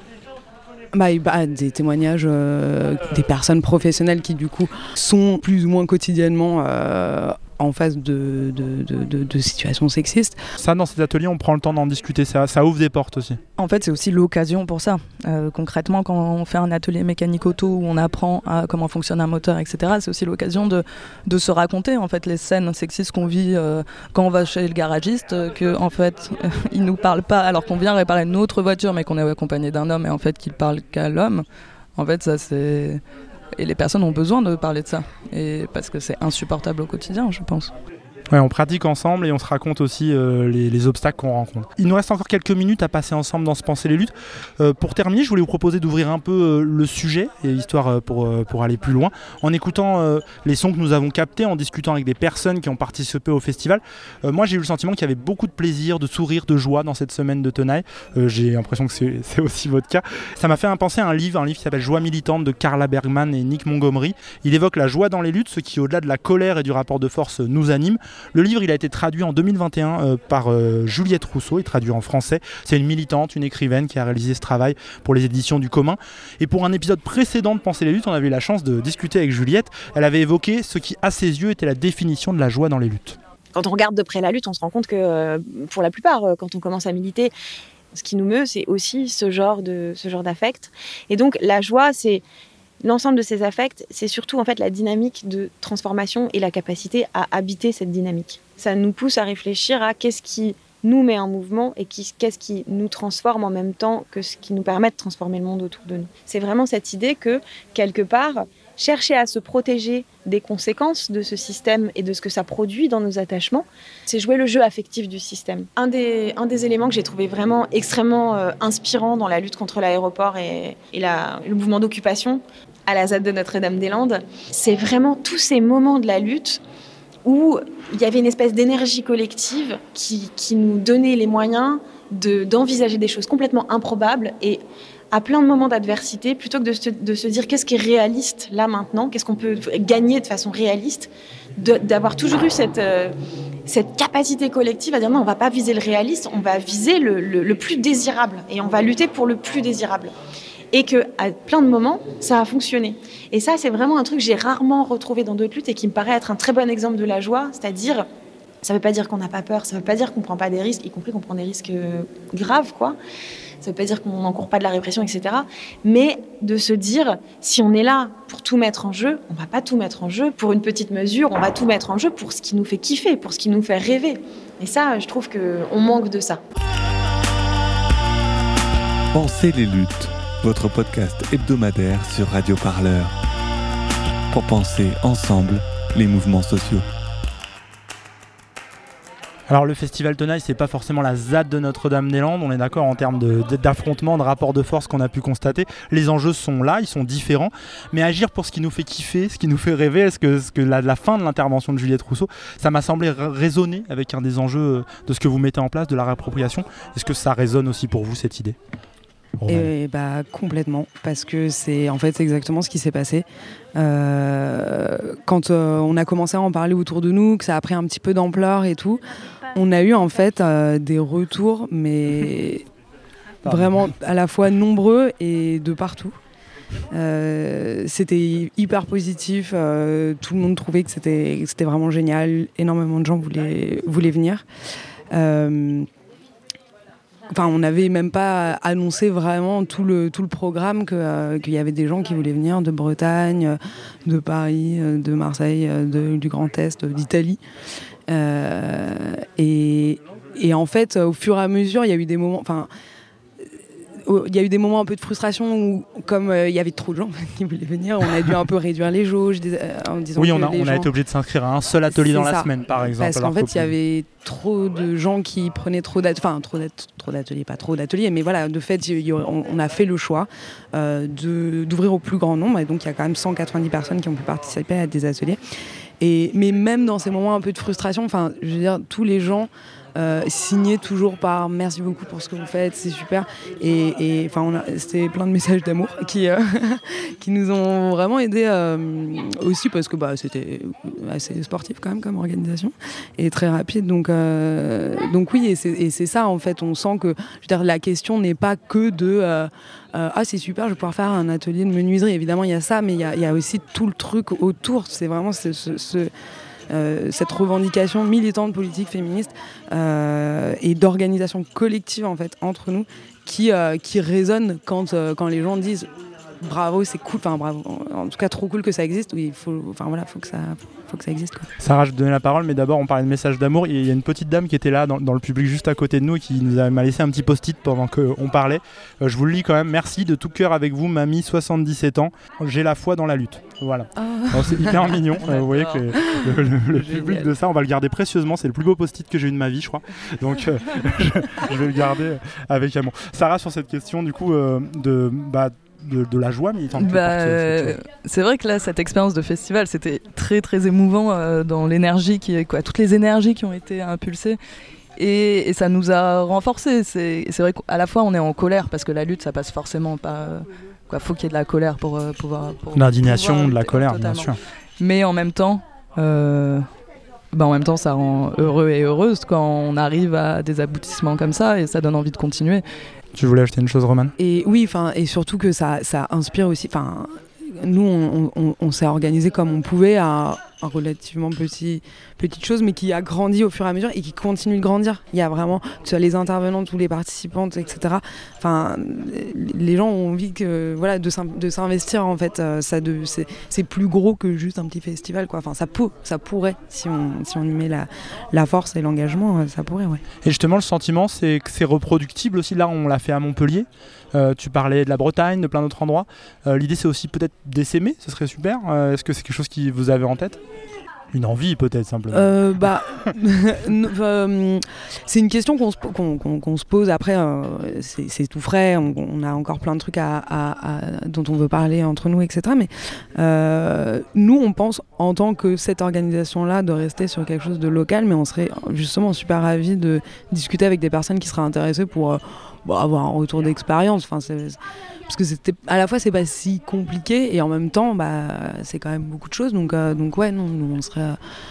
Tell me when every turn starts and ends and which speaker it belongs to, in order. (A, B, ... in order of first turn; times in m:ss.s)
0:00.9-0:10.4 A
0:10.6-0:13.4 B
0:13.6-0:31.4 C
0:32.0-0:33.0 C
0:33.6-0:37.7 C
0:38.3-1:23.2 B
1:23.5-1:27.3 D
1:27.9-1:32.2 D
1:32.8-2:06.6 D
2:07.2-2:14.6 D
2:15.1-2:23.1 D
2:23.7-2:30.1 D
2:30.7-2:38.1 D
2:38.6-2:43.0 D
2:43.6-2:56.4 D
2:59.1-3:03.1 E
3:04.3-3:06.8 E
3:09.5-3:28.6 B
3:29.4-3:29.7 B
3:29.5-3:39.0 A
3:39.5-3:42.7 A
3:43.4-3:43.9 B
3:43.4-3:46.2 A
3:46.9-3:54.4 A
3:55.1-3:55.9 A
3:57.3-4:07.4 A
4:08.1-4:12.7 A
4:14.0-4:20.9 A
4:20.2-4:23.7 B
4:21.9-4:35.4 A
4:36.0-5:06.1 A
5:06.7-5:21.5 A
5:21.6-5:47.8 B
5:34.0-5:36.4 A
5:46.7-5:54.4 C
5:55.0-6:06.6 C
6:02.7-6:04.4 B
6:07.3-6:12.6 C
6:13.1-6:14.1 B
6:14.2-6:40.0 A
6:40.2-6:50.4 B
6:51.1-6:52.4 B
6:52.1-7:21.2 A